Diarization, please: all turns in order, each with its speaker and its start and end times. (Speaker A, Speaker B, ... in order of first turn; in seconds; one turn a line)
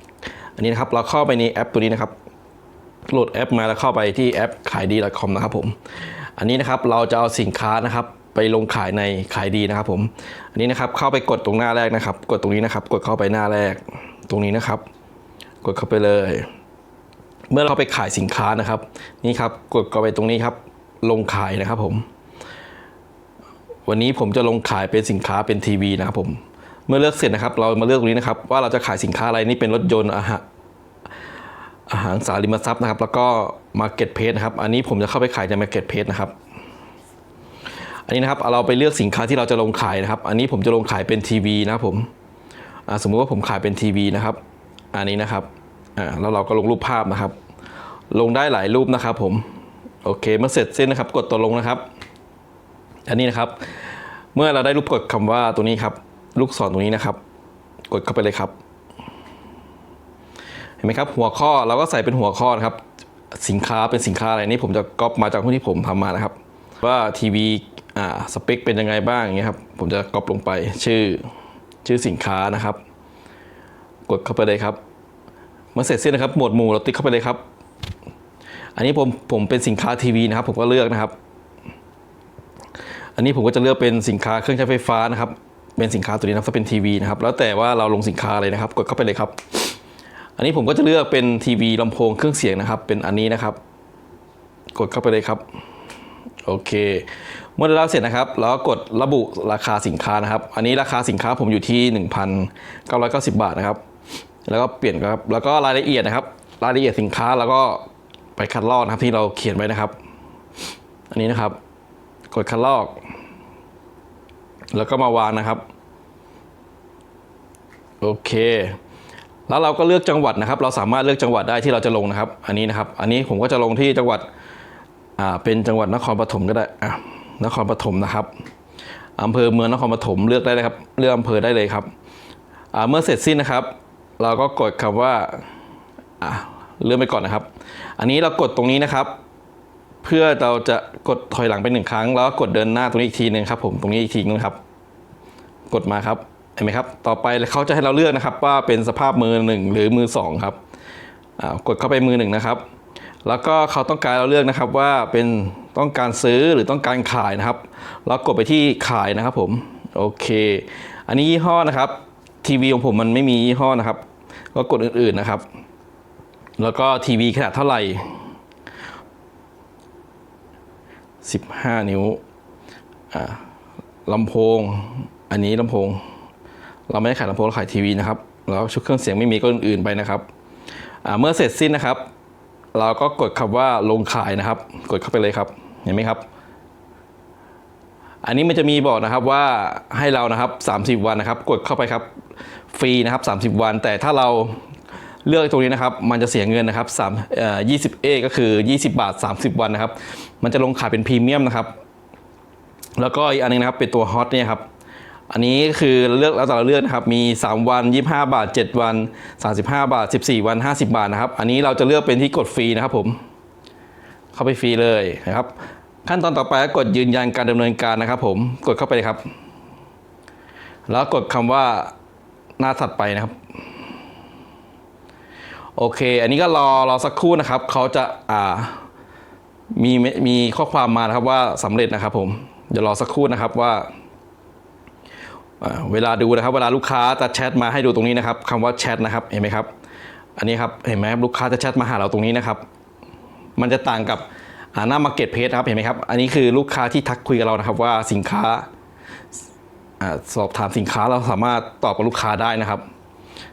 Speaker A: 0.6-2.1
Speaker A: 3.1-5.8
Speaker A: 6.3-14.8
Speaker A: 15.6-16.5
Speaker A: 17.5-22.1
Speaker A: 23.9-30.4
Speaker A: 31.9-36.3
Speaker A: 38.1-42.1
Speaker A: 42.9-44.4
Speaker A: 44.9-47.4
Speaker A: 48.1-49.5
Speaker A: 50.0-51.8
Speaker A: 53.1-57.2
Speaker A: 57.9-58.5
Speaker A: 60.8-62.8
Speaker A: 63.4-71.2
Speaker A: 71.8-72.8
Speaker A: 74.1-74.8
Speaker A: 75.7-77.4
Speaker A: 78.8-81.1
Speaker A: 83.2-89.7
Speaker A: 90.4-93.6
Speaker A: 94.7-95.4
Speaker A: 96.4-103.8
Speaker A: 104.5-109.9
Speaker A: 111.1-111.6
Speaker A: 112.3-113.0
Speaker A: 114.7-115.6
Speaker A: 118.0-118.8
Speaker A: 119.5-124.3
Speaker A: 125.2-128.3
Speaker A: 129.2-131.9
Speaker A: 132.7-135.5
Speaker A: 136.2-139.2
Speaker A: 140.0-144.6
Speaker A: 145.7-150.6
Speaker A: 151.4-152.6
Speaker A: 153.2-165.4
Speaker A: 166.6-168.2
Speaker A: 171.2-172.2
Speaker A: 173.1-173.4
Speaker A: 174.1-176.0
Speaker A: 176.9-180.3
Speaker A: 181.0-182.1
Speaker A: 182.7-186.2
Speaker A: 188.2-192.1
Speaker A: 192.7-194.6
Speaker A: 195.2-201.8
Speaker A: 203.0-204.6
Speaker A: 205.3-213.2
Speaker A: 214.3-219.2
Speaker A: 220.9-221.9
Speaker A: 222.6-223.3
Speaker A: 225.8-228.8
Speaker A: 229.7-233.9
Speaker A: 235.6-239.7
Speaker A: 240.4-242.6
Speaker A: 243.6-248.7
Speaker A: 250.0-252.8